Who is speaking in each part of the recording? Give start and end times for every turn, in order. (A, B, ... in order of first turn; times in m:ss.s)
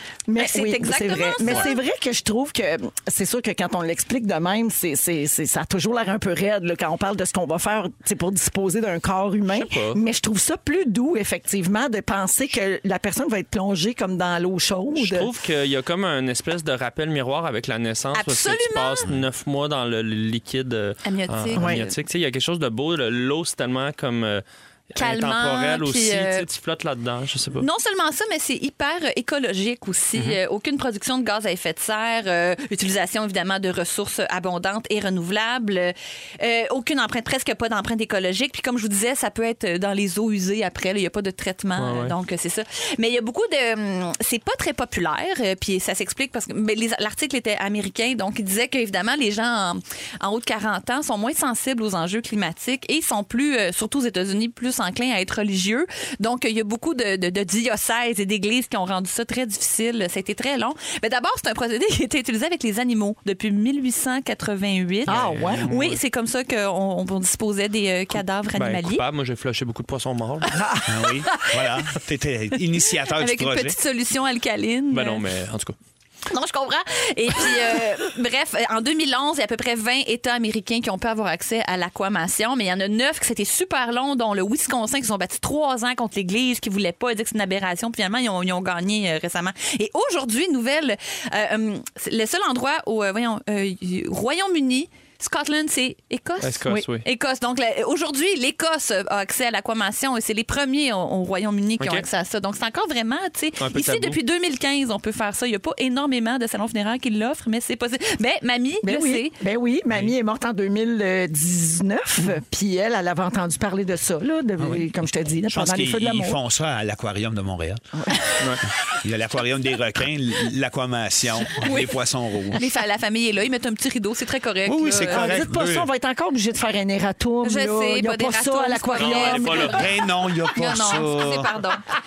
0:00.3-0:15.3 A
0:00.4-0:01.8 B
0:09.5-0:10.0 C
0:15.0-0:27.7 C
0:18.1-0:19.1 B
0:21.0-0:21.9 B
0:21.6-0:21.8 A
0:25.0-0:26.5 B
0:27.6-1:09.0 B
0:41.8-0:42.2 C
1:05.1-1:05.7 A
1:05.1-1:06.0 C
1:08.6-1:10.5 C
1:10.5-1:10.9 A
1:10.9-1:13.8 D
1:11.3-1:11.6 B
1:13.0-1:15.2 B
1:14.9-1:15.8 C
1:16.3-1:49.4 B
1:36.4-1:37.0 C
1:41.8-1:42.1 C
1:43.6-1:44.2 C
1:48.8-1:56.4 A
1:54.6-1:54.9 D
1:55.5-1:57.8 D
1:58.0-1:58.3 A
1:59.0-2:02.6 D
2:01.5-2:02.0 B
2:02.5-2:05.4 B
2:04.7-2:05.9 D
2:05.0-2:09.6 A
2:07.4-2:09.8 B
2:09.0-2:09.9 C
2:09.4-2:11.5 D
2:10.4-2:11.8 B